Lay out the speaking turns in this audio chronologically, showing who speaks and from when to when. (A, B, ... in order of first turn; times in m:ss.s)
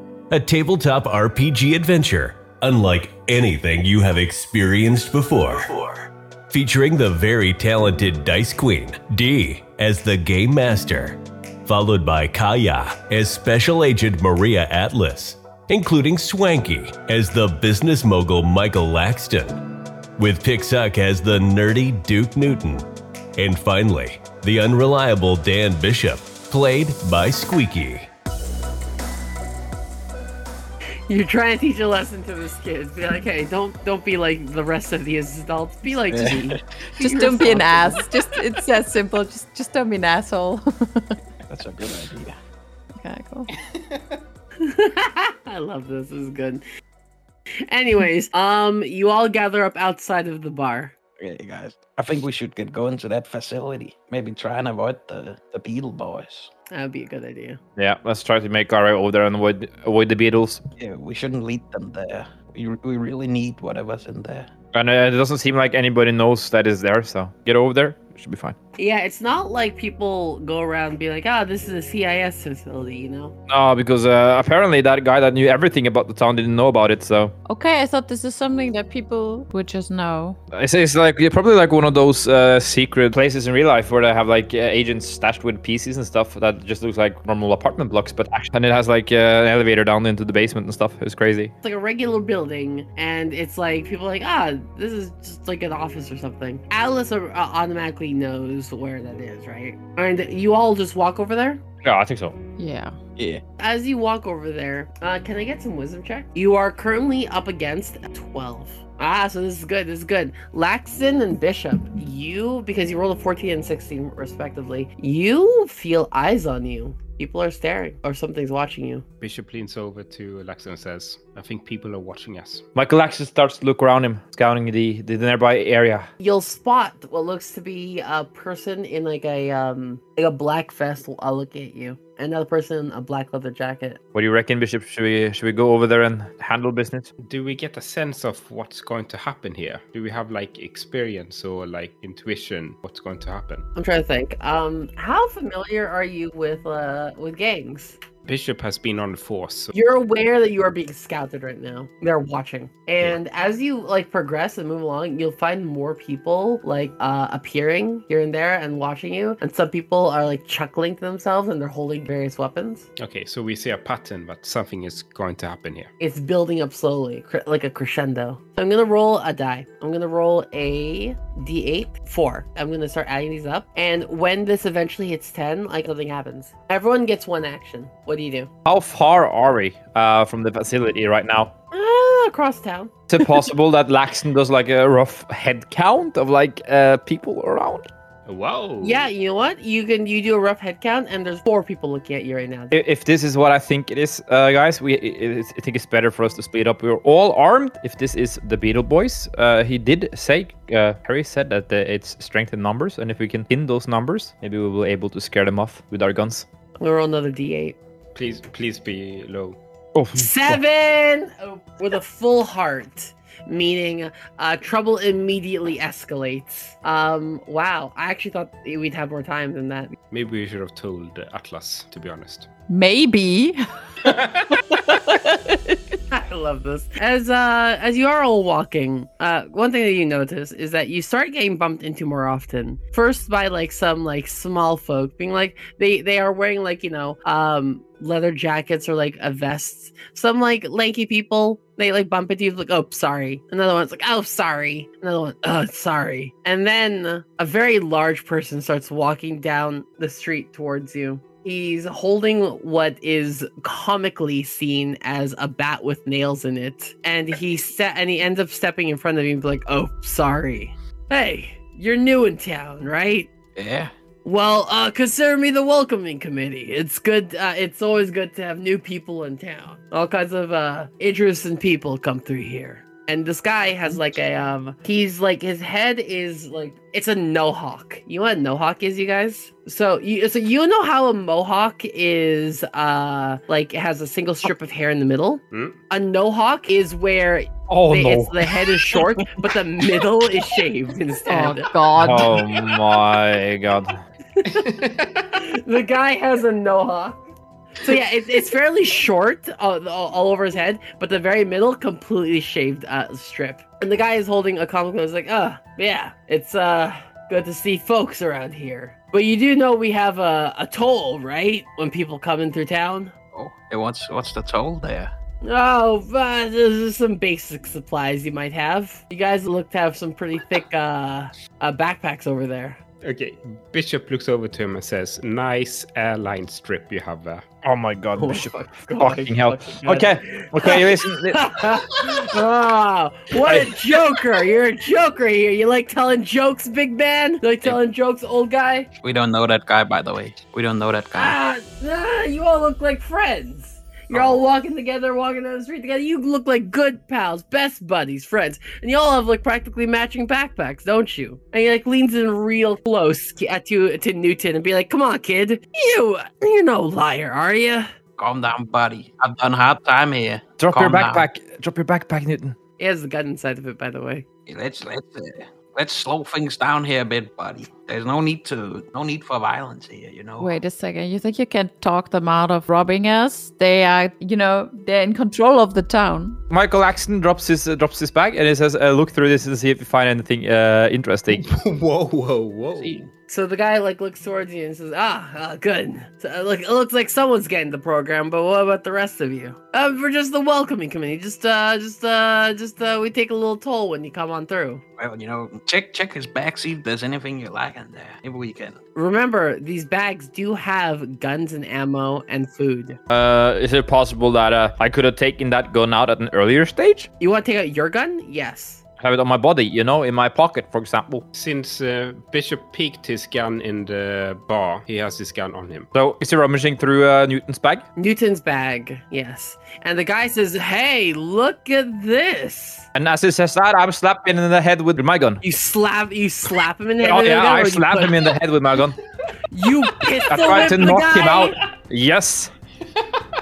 0:00.3-0:28.1 A
0:31.1-0:38.0 B
0:36.1-0:37.0 C
0:37.0-0:41.2 D
0:41.5-0:42.4 C
0:43.0-0:43.5 D
0:44.6-0:46.6 B
0:47.7-0:50.9 B
0:51.2-0:56.5 C
0:56.7-0:57.6 B
0:57.8-1:00.6 E
1:00.8-1:04.5 C
1:04.7-1:08.5 E
1:08.8-1:13.3 B
1:13.5-1:17.3 E
1:17.5-1:20.4 D
1:20.5-1:31.5 E
1:31.6-1:41.6 B
1:41.8-1:42.4 E
1:42.6-1:43.0 D
1:43.2-1:43.4 C
1:43.6-1:59.0 B
1:59.2-2:02.6 F
2:02.7-2:06.1 E
2:06.2-2:14.0 B
2:14.1-2:17.1 E
2:17.2-2:23.6 F
2:23.8-2:28.0 B
2:28.2-2:29.7 F
2:29.7-2:42.8 B
2:43.0-2:45.9 F
2:46.0-2:58.5 B
2:58.6-3:01.5 E
3:01.7-3:03.0 B
3:03.1-3:07.9 E
3:08.2-3:09.1 F
3:08.8-3:12.8 B
3:12.7-3:26.4 E
3:26.8-3:27.8 B
3:28.1-3:29.6 F
3:29.9-3:30.6 E
3:30.1-3:39.9 B
3:40.1-3:42.5 F
3:42.7-3:46.0 D
3:44.0-3:44.6 F
3:46.1-4:23.3 B
4:23.6-4:23.9 C
4:24.2-4:51.7 B
4:45.5-4:45.8 F
4:47.7-4:48.5 E
4:51.3-4:52.5 D
4:52.0-4:54.0 E
4:54.4-4:54.8 B
4:54.5-4:55.3 F
4:55.3-4:57.2 B
4:57.8-5:13.1 B
5:13.3-5:15.1 C
5:15.4-5:22.8 B
5:23.0-5:27.4 F
5:27.6-5:31.5 E
5:28.2-5:38.9 B
5:33.4-5:33.8 E
5:39.0-5:41.4 C
5:41.1-5:57.9 B
5:58.2-6:01.2 C
6:00.6-6:02.6 E
6:02.8-6:04.2 B
6:04.5-6:10.6 C
6:10.4-6:16.4 D
6:16.5-6:21.4 E
6:21.3-6:23.0 F
6:22.8-6:23.1 C
6:23.3-6:34.8 B
6:35.0-6:38.8 C
6:38.9-6:43.0 B
6:43.1-6:47.1 E
6:47.2-6:48.8 B
6:49.0-6:51.2 E
6:51.3-6:55.9 F
6:55.9-6:57.8 E
6:58.0-7:02.9 B
7:02.9-7:05.4 E
7:05.4-7:08.2 B
7:07.0-7:09.0 E
7:09.5-7:11.6 B
7:10.2-7:12.5 E
7:13.0-7:13.2 F